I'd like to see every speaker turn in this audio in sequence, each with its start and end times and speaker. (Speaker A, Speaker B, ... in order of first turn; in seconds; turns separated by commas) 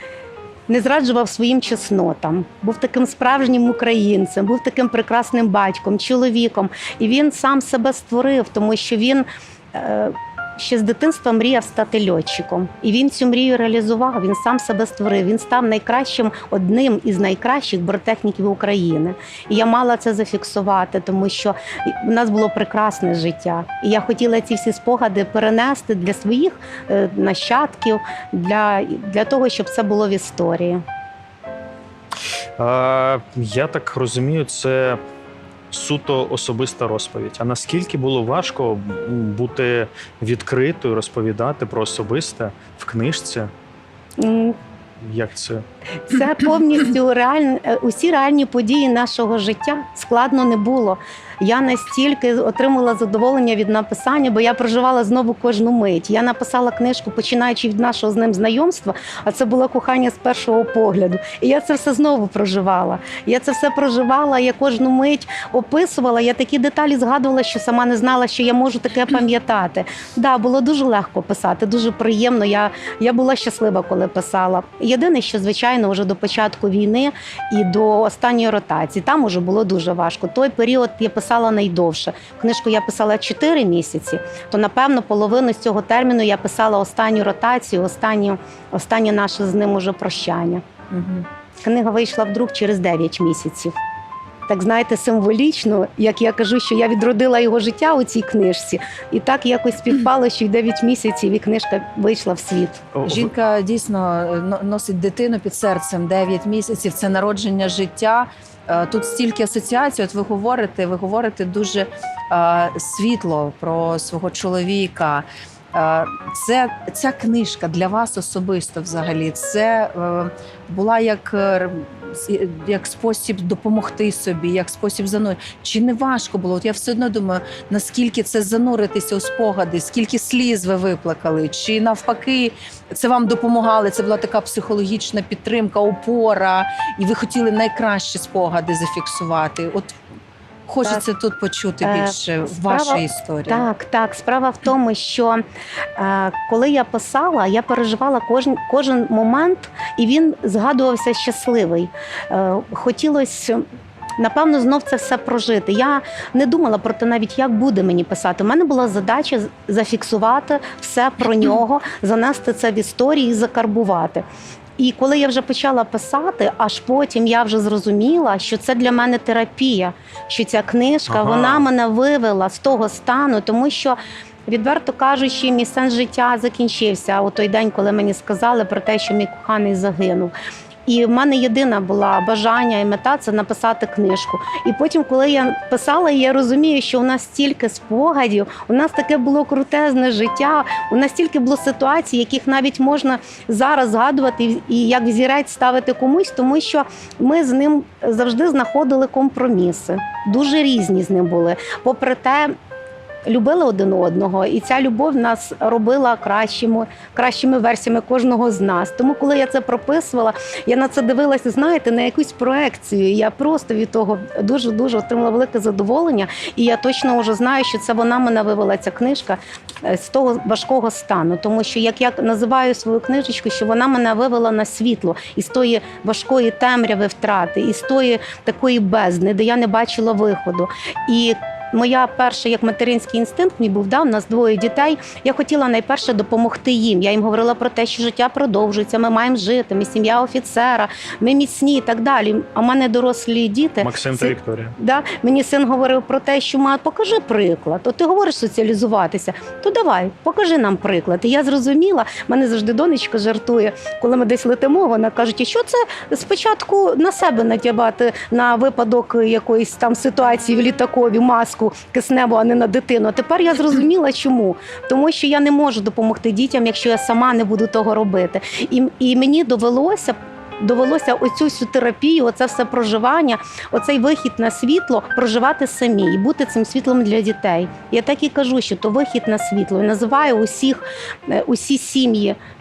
Speaker A: 0.7-30.8, Speaker B: 32.6-35.0, Speaker B: 35.7-43.5, Speaker A: 44.2-44.5, Speaker B: 45.0-45.6, Speaker A: 46.0-90.6, Speaker C: 90.9-91.2, Speaker A: 91.6-93.7, Speaker A: 94.5-102.8, Speaker B: 102.9-103.3, Speaker C: 103.0-139.9, Speaker C: 140.7-143.6, Speaker A: 141.8-145.4, Speaker A: 145.9-153.6, Speaker A: 154.2-164.2, Speaker A: 164.8-180.3, Speaker B: 171.1-171.7, Speaker A: 180.8-202.5, Speaker A: 203.2-282.4, Speaker B: 243.8-244.7